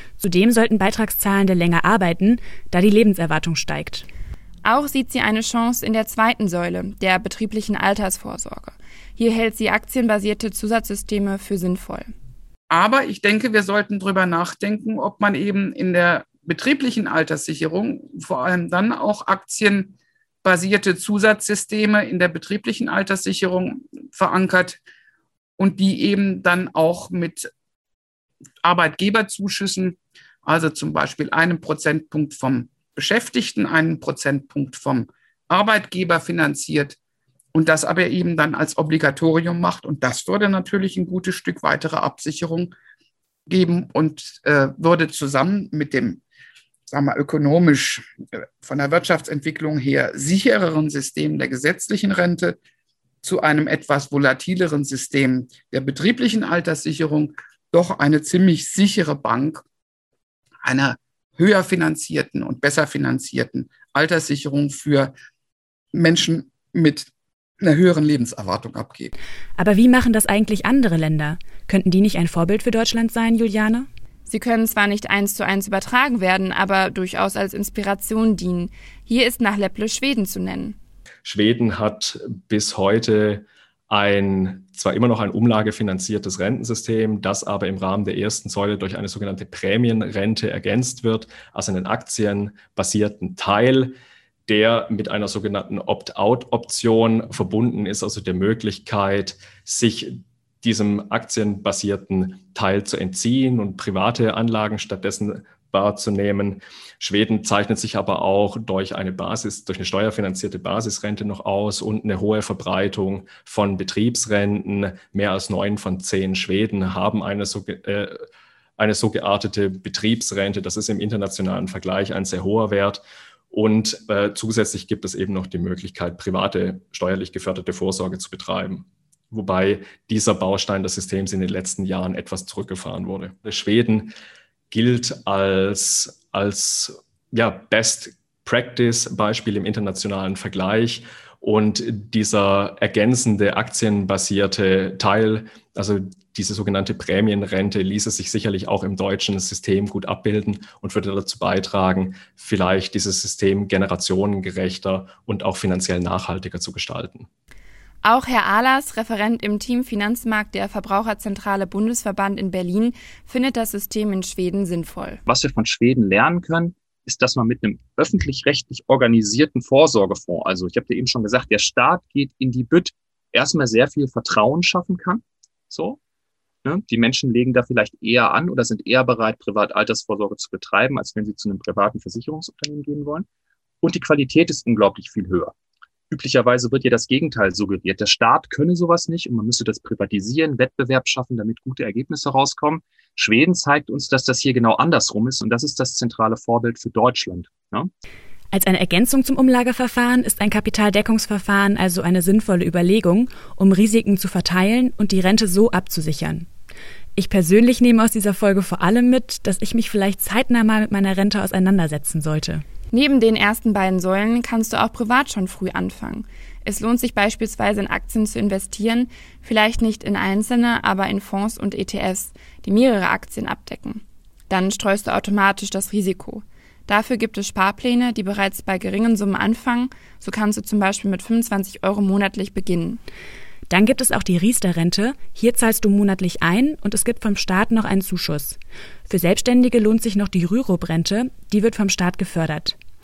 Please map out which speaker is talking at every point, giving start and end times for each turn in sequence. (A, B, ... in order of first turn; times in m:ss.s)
0:00.2-0:04.1 A
0:04.6-0:12.1 B
0:12.7-0:24.8 C
0:25.6-0:27.5 C
0:28.6-0:37.0 C
0:37.5-0:42.7 C
0:43.5-0:46.2 C
0:46.9-0:48.0 C
0:48.6-0:52.6 C
0:53.2-0:59.6 C
1:00.6-1:05.1 C
1:05.9-1:07.1 C
1:07.6-1:09.1 C
1:09.6-1:13.9 A
1:14.3-1:20.8 B
1:21.2-1:34.0 D
1:34.5-1:58.2 D
1:58.8-2:14.1 D
2:14.7-2:37.3 D
2:38.0-2:45.2 B
2:45.3-2:56.0 E
2:56.6-3:03.3 E
3:03.8-3:05.5 E
3:06.1-3:17.9 E
3:18.5-3:26.5 A
3:27.2-3:32.6 A
3:32.9-3:53.0 B
3:53.7-4:02.8 A